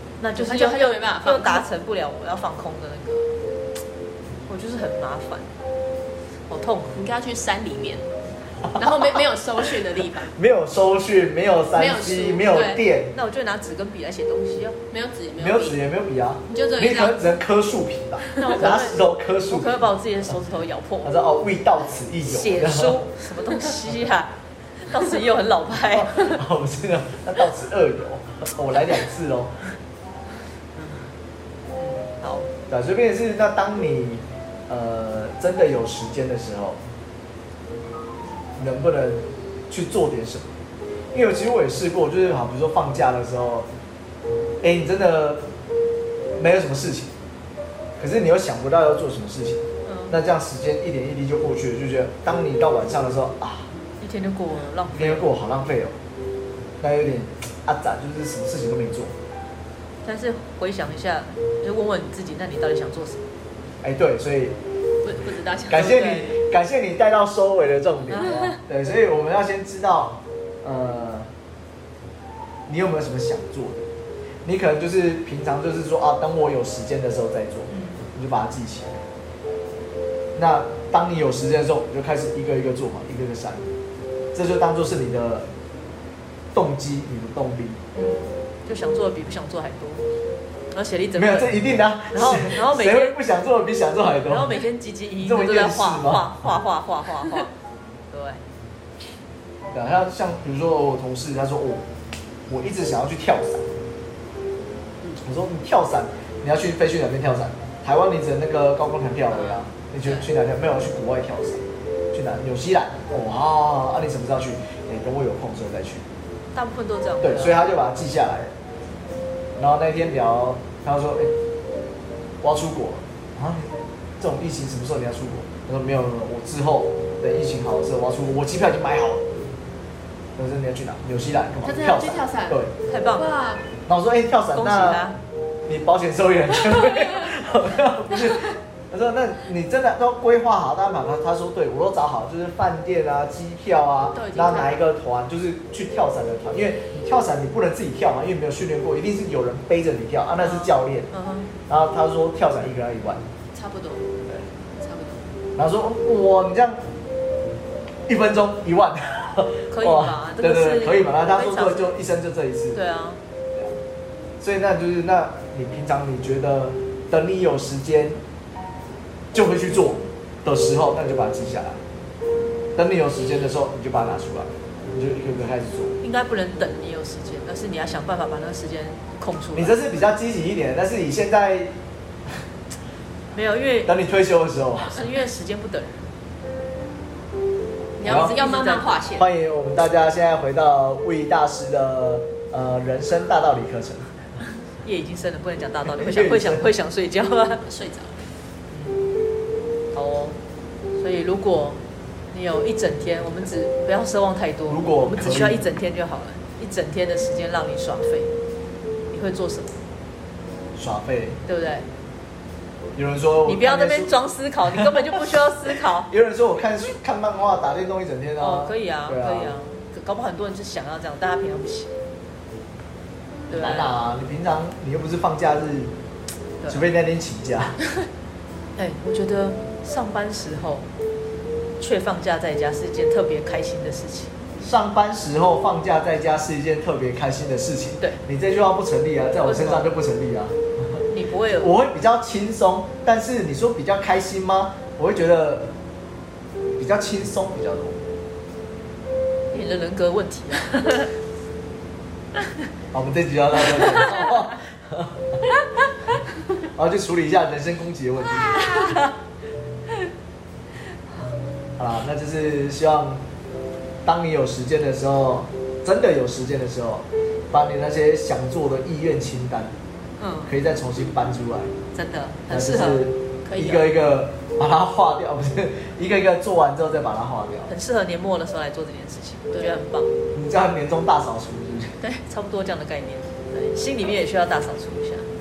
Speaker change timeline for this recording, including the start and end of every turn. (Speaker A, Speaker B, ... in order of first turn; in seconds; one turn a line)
Speaker A: 0.2-3.4
Speaker B: 0.3-1.7
Speaker A: 4.5-5.5
Speaker A: 6.5-7.0
Speaker B: 7.0-8.1
Speaker B: 8.7-10.3
Speaker C: 10.4-13.1
Speaker B: 11.7-12.8
Speaker A: 13.1-14.8
Speaker B: 14.9-15.8
Speaker C: 15.4-19.7
Speaker B: 16.5-17.3
Speaker B: 18.3-18.7
Speaker A: 18.4-21.1
Speaker C: 21.0-23.0
Speaker A: 22.2-26.4
Speaker C: 25.9-29.6
Speaker A: 31.8-32.5
Speaker C: 32.7-36.8
Speaker C: 38.6-40.5
Speaker C: 41.1-43.7
Speaker C: 44.6-45.5
Speaker C: 46.4-47.1
Speaker C: 48.0-53.7
Speaker A: 49.9-50.2
Speaker A: 54.0-55.3
Speaker C: 54.9-56.0
Speaker C: 56.8-59.1
Speaker A: 60.0-63.3
Speaker C: 63.8-64.6
Speaker B: 65.0-66.0
Speaker C: 65.7-71.3
Speaker A: 65.7-66.4
Speaker A: 68.1-68.5
Speaker C: 72.7-73.8
Speaker C: 74.4-79.0
Speaker A: 77.7-78.0
Speaker C: 80.3-83.7
Speaker C: 84.3-85.5
Speaker C: 86.5-87.8
Speaker A: 88.0-90.1
Speaker A: 90.7-93.2
Speaker C: 91.2-94.6
Speaker A: 94.3-97.5
Speaker C: 95.2-96.5
Speaker A: 98.1-98.4
Speaker C: 99.7-101.8
Speaker C: 102.5-103.7
Speaker C: 105.2-116.0
Speaker A: 116.5-117.6
Speaker C: 117.2-118.5
Speaker C: 119.6-121.3
Speaker C: 122.4-129.3
Speaker C: 130.4-132.7
Speaker B: 131.6-132.6
Speaker A: 132.9-133.3
Speaker B: 133.2-133.7
Speaker C: 133.9-135.0
Speaker A: 134.6-135.2
Speaker C: 135.7-151.1
Speaker B: 144.1-144.8
Speaker A: 150.4-151.5
Speaker C: 151.7-153.2
Speaker B: 153.5-154.1
Speaker B: 154.7-155.3
Speaker C: 155.6-156.8
Speaker C: 158.1-162.8
Speaker A: 159.7-161.9
Speaker A: 162.7-163.2
Speaker C: 164.4-168.2
Speaker C: 169.3-171.8
Speaker C: 172.8-176.0
Speaker A: 176.0-179.8
Speaker C: 179.6-181.8
Speaker A: 183.3-184.0
Speaker C: 183.9-185.0
Speaker A: 184.8-186.1
Speaker B: 188.0-189.3
Speaker A: 188.0-188.9
Speaker C: 188.1-188.3
Speaker C: 189.2-194.1
Speaker A: 194.8-197.7
Speaker C: 195.8-196.7
Speaker B: 197.6-198.2
Speaker A: 198.7-199.0
Speaker A: 199.9-200.4
Speaker A: 201.0-201.8
Speaker A: 202.3-208.3
Speaker C: 204.7-205.7
Speaker A: 209.1-209.7
Speaker C: 210.8-211.4
Speaker A: 211.5-211.9
Speaker C: 213.0-214.2
Speaker A: 213.5-216.1
Speaker C: 214.7-215.2
Speaker C: 216.1-219.6
Speaker A: 218.4-222.0
Speaker A: 223.5-224.0
Speaker C: 223.5-225.9
Speaker C: 226.7-227.8
Speaker A: 228.8-230.9
Speaker A: 231.8-234.4
Speaker C: 234.6-240.6
Speaker A: 239.4-239.9
Speaker A: 241.1-241.8
Speaker C: 241.6-245.7
Speaker C: 246.8-248.0
Speaker A: 249.5-251.1
Speaker C: 252.9-255.4
Speaker A: 253.8-254.3
Speaker C: 256.6-259.0
Speaker A: 258.5-259.1
Speaker C: 261.8-263.2
Speaker C: 264.0-269.7
Speaker A: 270.2-270.5
Speaker C: 270.5-271.7
Speaker A: 271.9-273.1
Speaker C: 272.5-277.7
Speaker B: 273.5-273.9
Speaker A: 277.7-280.1
Speaker C: 280.3-281.9
Speaker A: 282.3-285.3